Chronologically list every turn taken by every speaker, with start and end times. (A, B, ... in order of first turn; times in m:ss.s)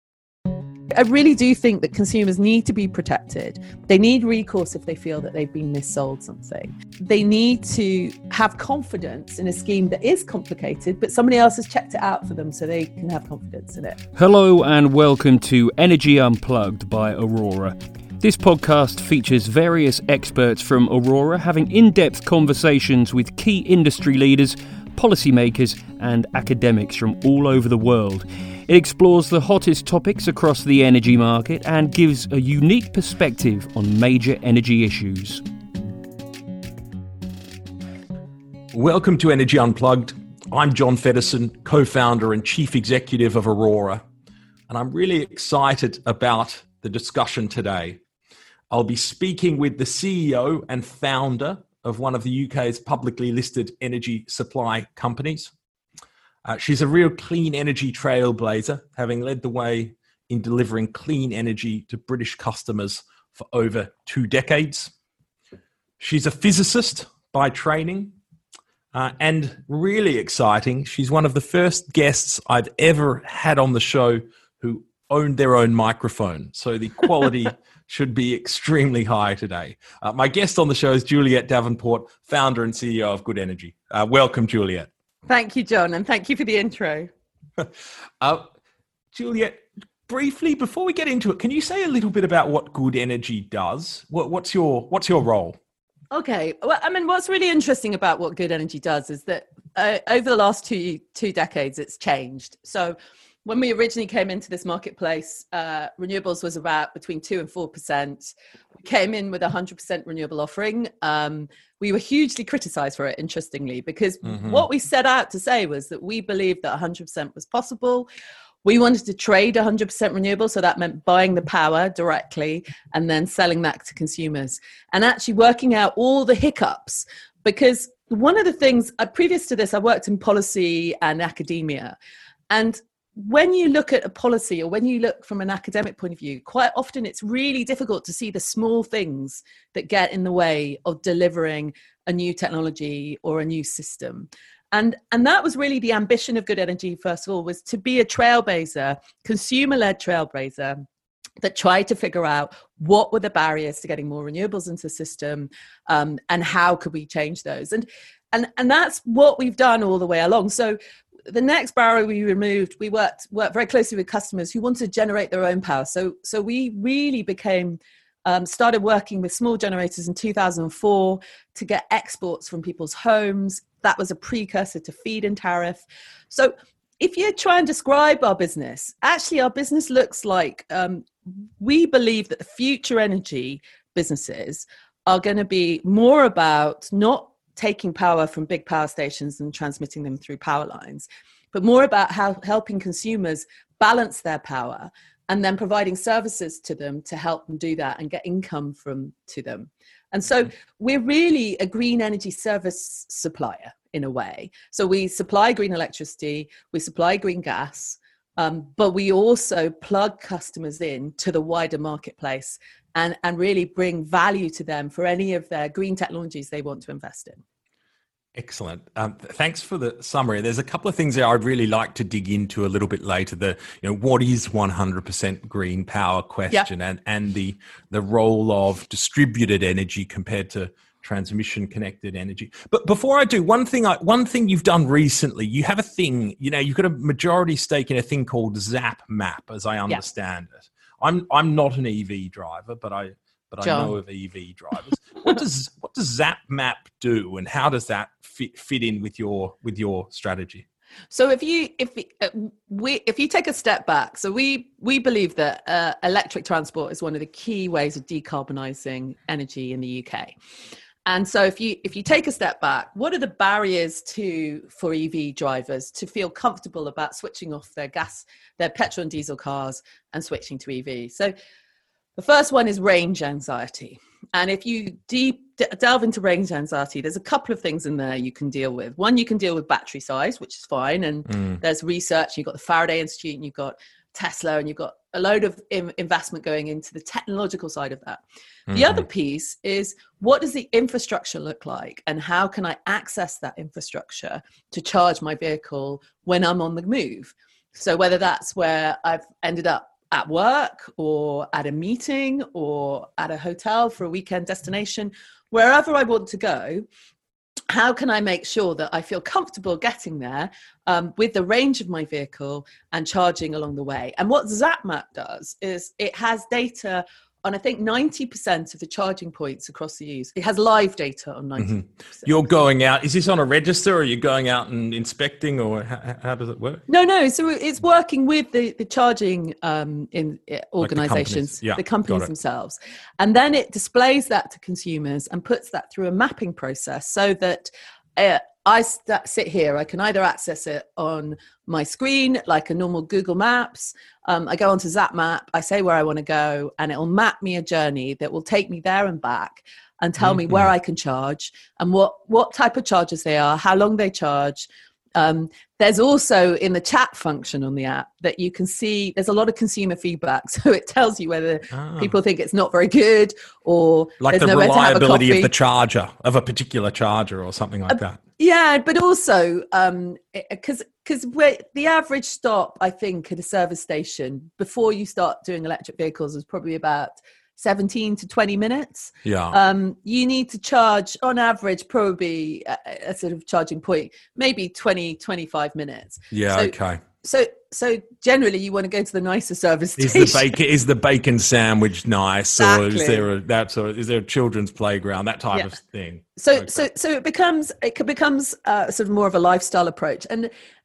0:00.9-0:14.0 A
0:14.2-0:35.4 B
0:38.7-0:44.0 C
0:44.7-0:48.0 C
0:48.7-0:55.5 C
0:56.4-1:04.9 C
1:06.0-1:08.1 C
1:08.9-1:24.9 C
1:25.3-1:27.1 A
1:27.6-1:28.5 C
1:29.1-1:35.6 C
1:36.1-1:58.1 A
1:54.2-1:54.6 C
1:58.6-2:12.0 A
2:12.5-2:30.8 A
2:31.4-3:01.1 A
3:01.6-3:37.4 A
3:38.4-4:10.6 C
4:03.6-4:04.0 A
4:11.1-4:20.3 A
4:21.1-4:31.3 A
4:32.2-5:06.9 A
4:48.7-4:49.0 C
5:07.7-5:22.3 A
5:21.6-5:26.8 C
5:26.9-6:05.5 A
5:30.8-5:32.3 C
5:50.2-5:50.7 C
6:01.7-6:02.1 C
6:04.2-6:08.2 C
6:07.9-6:30.4 A
6:19.2-6:19.6 C
6:26.3-6:27.0 C
6:30.0-6:36.9 C
6:32.6-6:33.3 A
6:36.4-6:40.5 A